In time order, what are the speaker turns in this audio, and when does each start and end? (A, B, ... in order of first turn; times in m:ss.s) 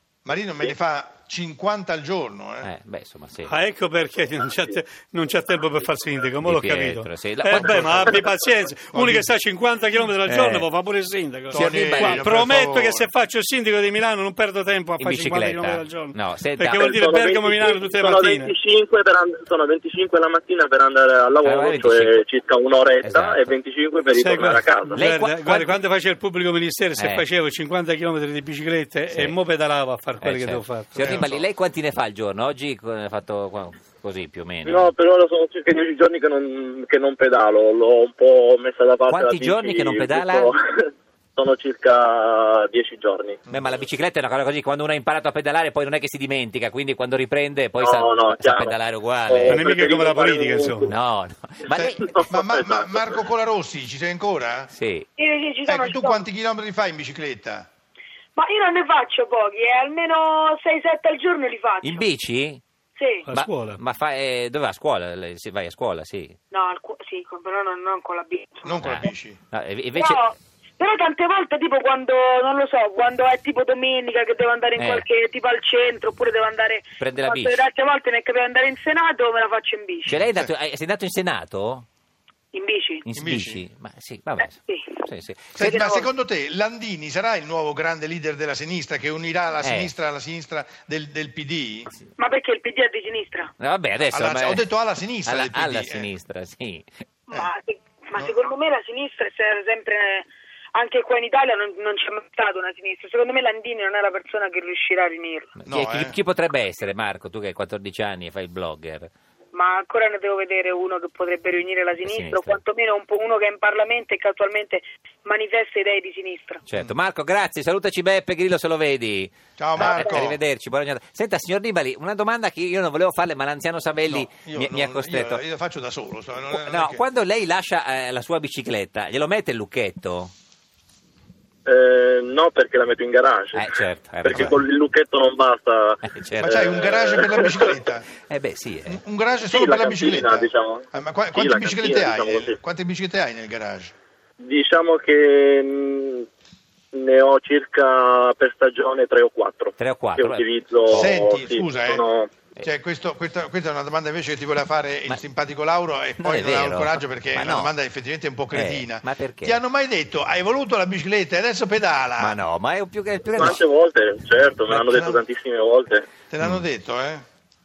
0:00.2-0:02.7 A
0:02.6-0:03.5 B
0:03.5-0:18.5 C
0:06.4-0:08.2 B
0:07.5-0:08.2 A
0:08.9-0:09.3 A
0:10.2-0:10.7 B
0:11.5-0:12.3 B
0:11.5-0:13.1 A
0:15.0-0:16.8 B
0:16.7-0:25.0 D
0:21.4-0:22.2 B
0:23.0-0:23.5 B
0:24.1-0:31.2 C
0:24.9-0:25.8 B
0:27.0-0:27.2 B
0:30.2-0:34.9 B
0:31.0-0:31.4 A
0:34.6-0:43.4 D
0:39.1-0:40.5 B
0:43.5-0:43.8 A
0:43.5-0:49.6 B
0:47.8-0:50.9 D
0:49.5-0:50.9 C
0:50.9-0:52.2 B
0:51.7-0:54.7 A
0:52.0-0:53.2 D
0:54.7-0:55.0 B
0:55.2-0:56.2 E
0:55.6-0:57.7 A
0:58.4-1:02.0 E
1:01.8-1:02.6 B
1:03.0-1:03.3 E
1:03.2-1:03.8 C
1:03.3-1:06.4 B
1:06.5-1:08.8 E
1:08.6-1:09.4 A
1:08.8-1:10.2 B
1:09.9-1:20.1 E
1:14.8-1:15.0 B
1:17.0-1:17.6 B
1:20.1-1:20.5 A
1:20.1-1:21.8 B
1:22.5-1:23.0 E
1:23.0-1:26.0 B
1:23.2-1:23.6 A
1:24.4-1:25.0 E
1:25.5-1:31.9 A
1:25.6-1:26.0 E
1:29.6-1:29.9 B
1:32.2-1:33.5 E
1:33.6-1:34.6 B
1:34.1-1:36.1 A
1:35.2-1:36.8 B
1:37.3-1:45.5 E
1:45.6-1:49.1 B
1:45.6-1:46.2 A
1:49.5-1:56.6 E
1:52.0-1:52.6 B
1:56.7-2:05.4 B
1:59.6-2:00.4 A
1:59.8-2:00.2 E
2:04.1-2:07.0 A
2:06.5-2:10.3 B
2:11.6-2:13.7 D
2:13.5-2:14.6 B
2:14.2-2:17.8 D
2:16.0-2:16.6 B
2:16.4-2:18.1 A
2:18.3-2:19.0 B
2:18.9-2:23.9 A
2:19.5-2:22.6 D
2:24.4-2:26.3 D
2:26.9-2:32.3 D
2:29.8-2:31.2 B
2:30.9-2:32.0 A
2:32.6-2:42.4 A
2:36.2-2:37.7 B
2:38.5-2:39.6 B
2:42.2-2:43.6 B
2:43.3-2:46.1 D
2:44.7-2:45.2 A
2:46.3-2:47.2 A